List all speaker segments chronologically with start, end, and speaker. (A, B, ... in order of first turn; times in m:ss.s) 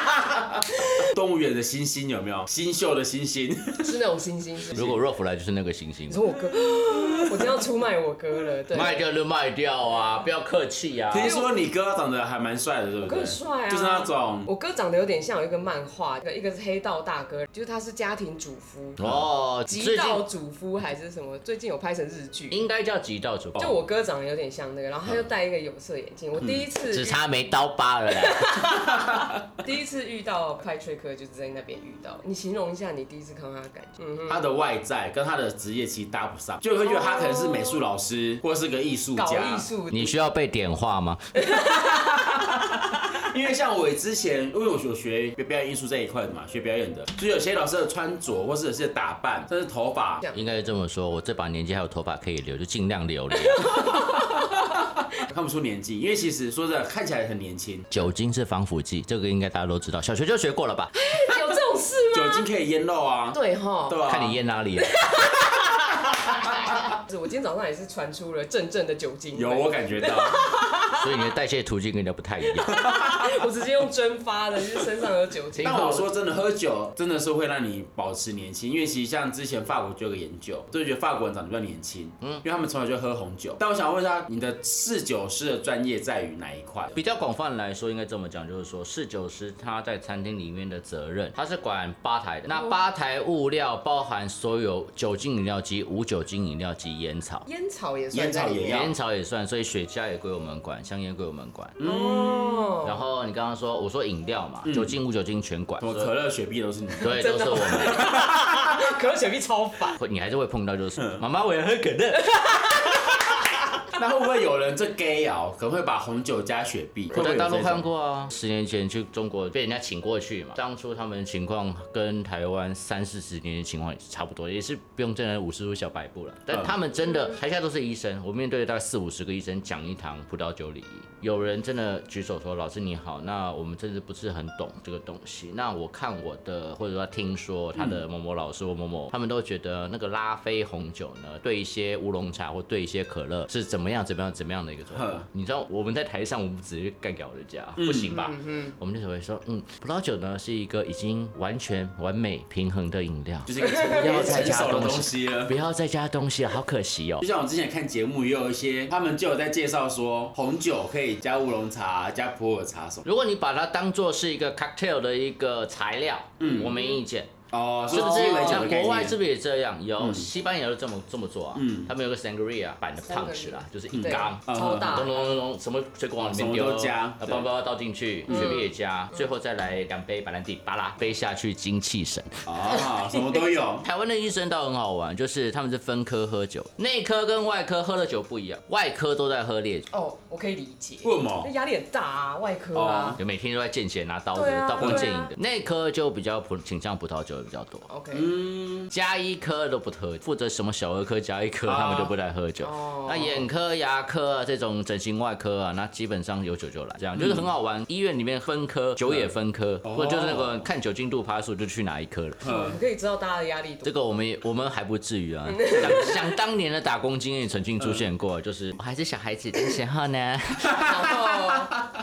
0:00.3-0:04.0 A
0:00.8-0:01.1 B
0:03.8-0:04.9 B
0:04.7-0:06.3 C
0:06.1-0:09.0 B
0:08.7-0:11.3 C
0:11.1-0:14.5 A
0:11.2-0:11.5 B
0:13.0-0:19.0 B
0:19.0-0:20.2 C
0:19.7-0:22.7 B
0:22.5-0:23.8 C
0:23.6-0:27.2 B
0:26.4-0:26.7 A
0:26.8-0:28.8 C
0:28.1-0:34.4 B
0:28.9-0:29.3 A
0:34.3-0:39.7 A
0:36.8-0:37.8 B
0:39.2-0:40.2 B
0:39.9-0:41.4 C
0:41.3-0:42.7 B
0:41.5-0:50.2 A
0:50.3-0:53.8 C
0:53.4-0:54.9 B
0:55.2-0:57.9 A
0:57.9-1:00.9 C
1:00.9-1:02.4 B
1:02.1-1:04.4 A
1:03.3-1:04.0 B
1:04.0-1:05.0 C
1:04.8-1:11.0 B
1:09.3-1:10.4 A
1:10.9-1:12.9 C
1:12.6-1:16.0 B
1:12.7-1:13.3 A
1:15.5-1:16.1 C
1:15.6-1:27.0 A
1:26.9-1:37.4 C
1:37.4-1:38.9 B
1:38.1-1:38.9 A
1:38.7-1:41.8 C
1:41.8-1:42.7 A
1:41.8-1:43.0 B
1:42.8-1:46.1 C
1:44.6-1:45.0 A
1:45.8-1:48.6 A
1:47.0-1:48.2 C
1:47.0-1:50.0 B
1:50.0-1:53.1 C
1:51.0-1:51.2 A
1:52.4-1:53.0 B
1:53.9-1:57.9 A
1:57.1-2:37.3 C
2:06.5-2:06.7 A
2:17.7-2:18.0 A
2:24.9-2:25.3 A
2:27.8-2:28.2 A
2:28.1-2:28.8 B
2:33.4-2:35.5 A
2:33.6-2:34.5 B
2:37.2-2:43.0 A
2:43.0-2:47.3 C
2:46.4-2:46.8 A
2:47.5-2:49.2 A
2:47.9-3:02.5 C
2:50.0-2:50.3 A
2:51.5-2:51.9 A
2:53.0-2:55.3 B
2:53.9-2:55.2 A
2:56.2-2:57.5 A
2:58.3-2:58.6 B
2:58.3-2:58.6 A
3:02.4-3:03.8 A
3:03.8-3:09.9 C
3:09.9-3:13.2 B
3:11.0-3:11.5 A
3:12.7-3:13.2 A
3:13.2-3:17.9 C
3:14.3-3:15.3 B
3:14.8-3:15.1 A
3:17.9-3:18.3 B
3:18.1-3:18.9 A
3:18.9-3:32.5 C
3:21.6-3:22.1 A
3:22.6-3:23.4 B
3:27.1-3:27.5 A
3:29.8-3:30.7 A
3:32.4-3:32.8 A
3:32.4-3:33.9 B
3:33.8-3:41.3 C
3:35.5-3:36.3 B
3:40.7-3:41.7 B